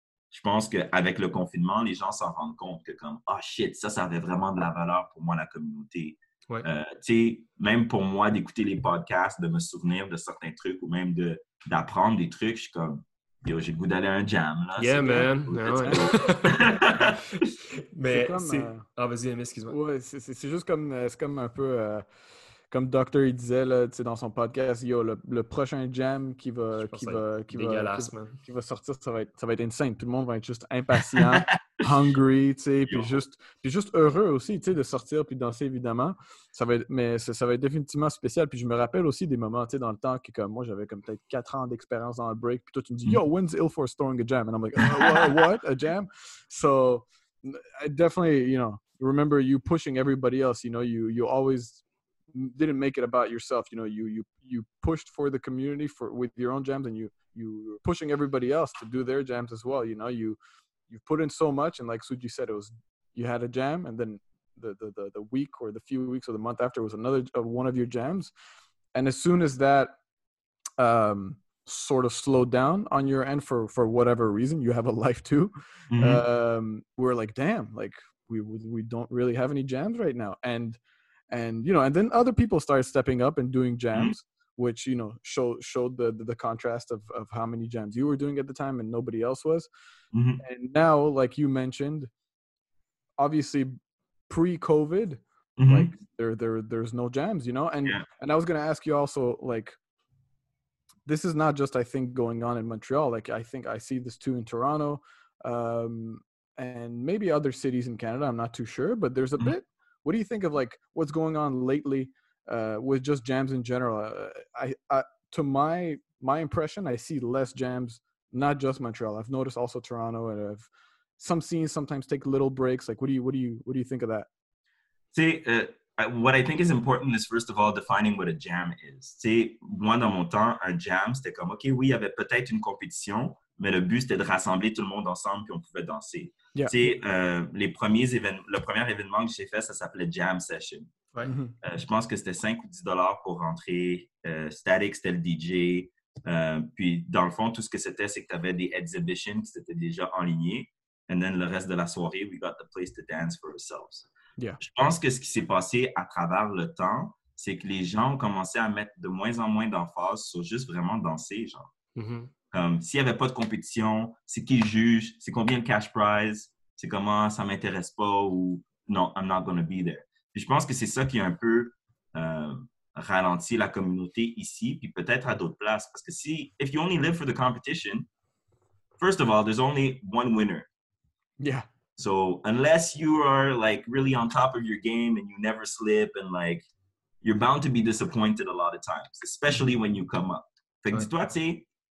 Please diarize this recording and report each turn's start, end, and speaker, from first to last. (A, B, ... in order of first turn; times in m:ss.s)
0:00.3-0:17.2 A
0:14.8-0:19.8 B
0:18.1-0:18.8 C
0:19.7-0:22.0 C
0:22.7-0:51.8 C
0:26.8-0:28.4 B
0:31.2-0:32.0 A
0:32.9-0:33.1 A
0:52.3-1:00.4 C
1:00.9-1:08.3 C
1:08.9-1:10.0 C
1:10.8-1:29.7 C
1:15.9-1:16.2 A
1:30.1-1:30.4 A
1:30.4-1:32.1 C
1:33.2-1:33.7 C
1:34.3-1:39.8 C
1:35.6-1:35.9 A
1:41.1-2:00.7 C
2:01.2-2:04.3 C
2:05.1-2:20.9 A
2:16.5-2:16.8 C
2:21.2-2:21.5 C
2:21.6-2:34.1 A
2:34.6-2:41.7 A
2:42.0-2:42.3 B
2:42.5-2:58.1 A
2:59.0-3:00.7 A
3:01.4-3:01.7 C
3:02.0-3:06.7 A
3:07.2-3:11.7 A